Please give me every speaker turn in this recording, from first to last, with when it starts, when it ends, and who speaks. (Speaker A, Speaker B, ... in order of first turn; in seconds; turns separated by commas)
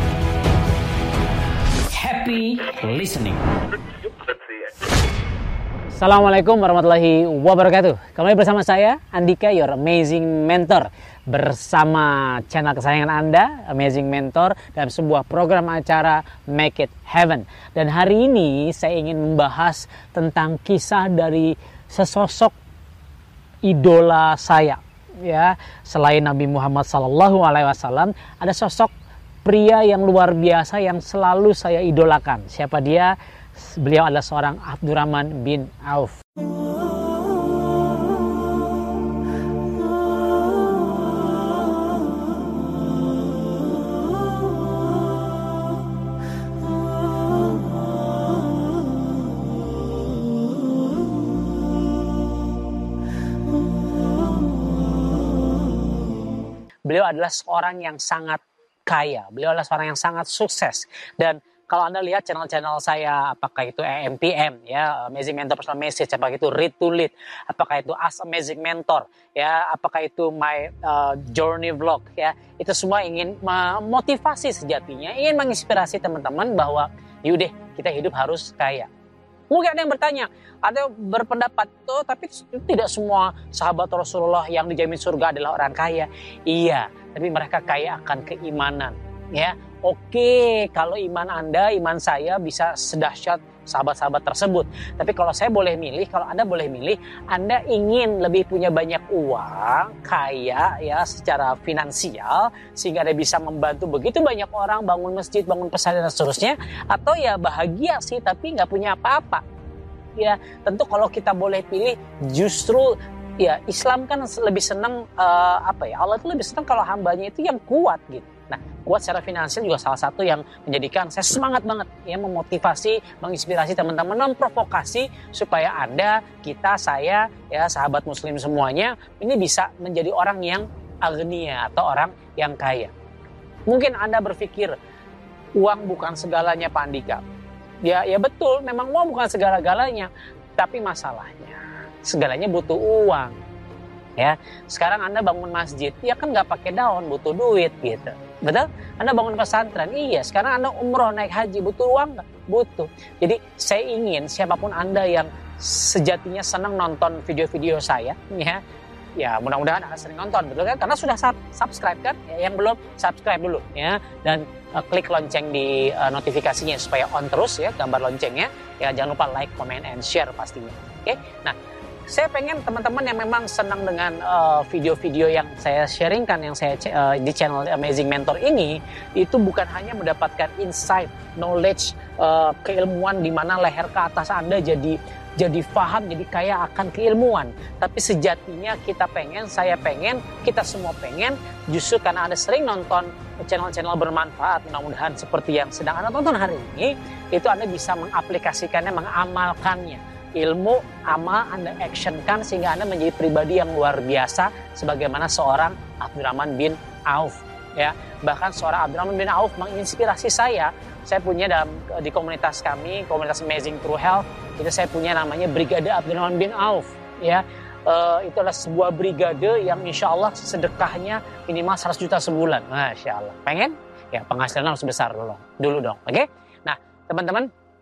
Speaker A: 1.9-3.4, Speaker A: 6.0-22.6, Speaker A: 23.6-28.9, Speaker A: 29.4-36.2, Speaker A: 56.9-78.9, Speaker A: 79.5-109.4, Speaker A: 110.2-132.9, Speaker A: 133.7-134.8, Speaker A: 135.6-137.2, Speaker A: 137.8-143.3, Speaker A: 144.2-158.6, Speaker A: 159.2-171.6, Speaker A: 172.1-227.5